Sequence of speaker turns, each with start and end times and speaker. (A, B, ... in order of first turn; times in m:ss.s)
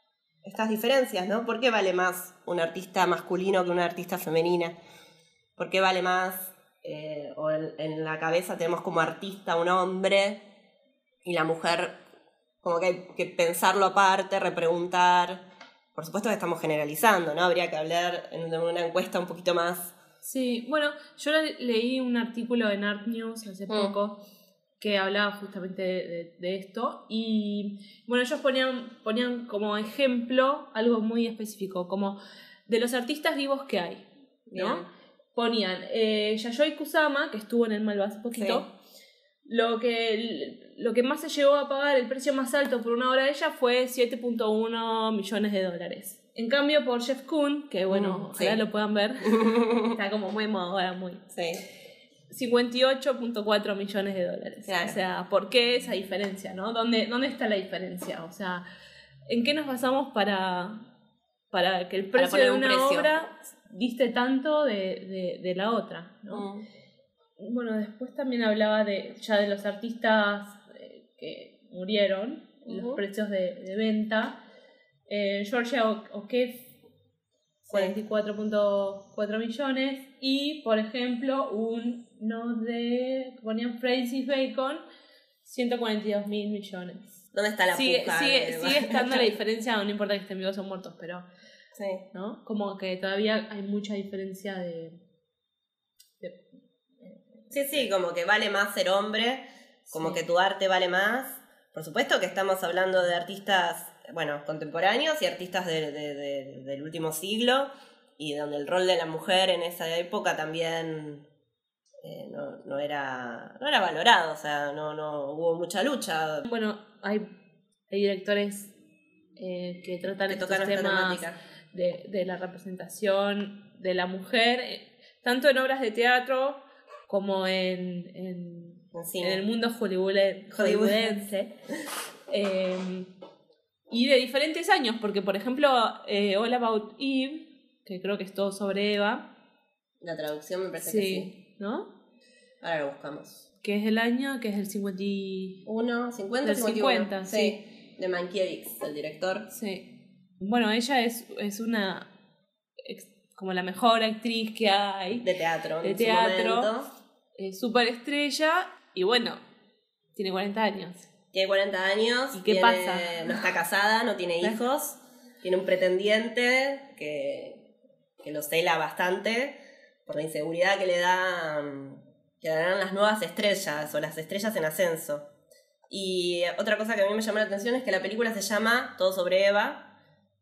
0:00.4-0:04.8 A
0:05.6-0:10.4 A
0:11.2-0:12.0 A
0:12.6-0:15.4 A
0:16.0-0:20.0 A
0:20.2-0:24.2 B
0:23.7-0:24.0 A
0:24.8-0:32.2 B
0:32.7-0:38.7 B
0:34.5-0:34.9 A
0:38.3-0:38.6 A
0:39.5-0:51.2 B
0:47.9-0:48.6 A
0:49.3-0:50.0 A
0:51.3-0:51.6 A
0:52.3-0:58.6 B
0:54.7-0:55.0 A
0:59.3-1:00.9 B
1:01.5-1:06.5 B
1:02.2-1:03.1 A
1:06.3-1:06.6 A
1:07.4-1:14.4 B
1:12.7-1:13.0 A
1:15.1-1:16.7 B
1:17.6-1:24.8 B
1:17.7-1:18.0 A
1:25.4-1:27.1 B
1:27.3-1:29.3 A
1:27.7-1:31.3 B
1:31.7-1:32.0 A
1:32.1-1:35.0 B
1:37.5-1:51.2 A
1:39.9-1:40.2 B
1:52.0-1:56.5 A
1:56.5-1:57.3 B
1:57.9-1:58.7 B
1:59.4-2:11.5 B
2:00.3-2:01.4 A
2:08.9-2:09.4 A
2:10.5-2:11.3 A
2:12.3-2:13.1 B
2:13.9-2:19.2 B
2:20.0-2:21.3 A
2:20.8-2:21.9 B
2:22.6-2:23.4 A
2:23.6-2:25.6 B
2:25.7-2:29.5 A
2:26.4-2:27.6 B
2:29.5-2:29.9 B
2:30.4-2:32.1 B
2:32.8-2:35.3 B
2:35.2-2:36.9 A
2:35.8-2:36.7 B
2:37.4-2:39.4 B
2:40.2-2:41.1 B
2:41.3-2:47.7 A
2:42.3-2:43.4 B
2:48.2-2:55.3 A
2:55.9-2:59.9 A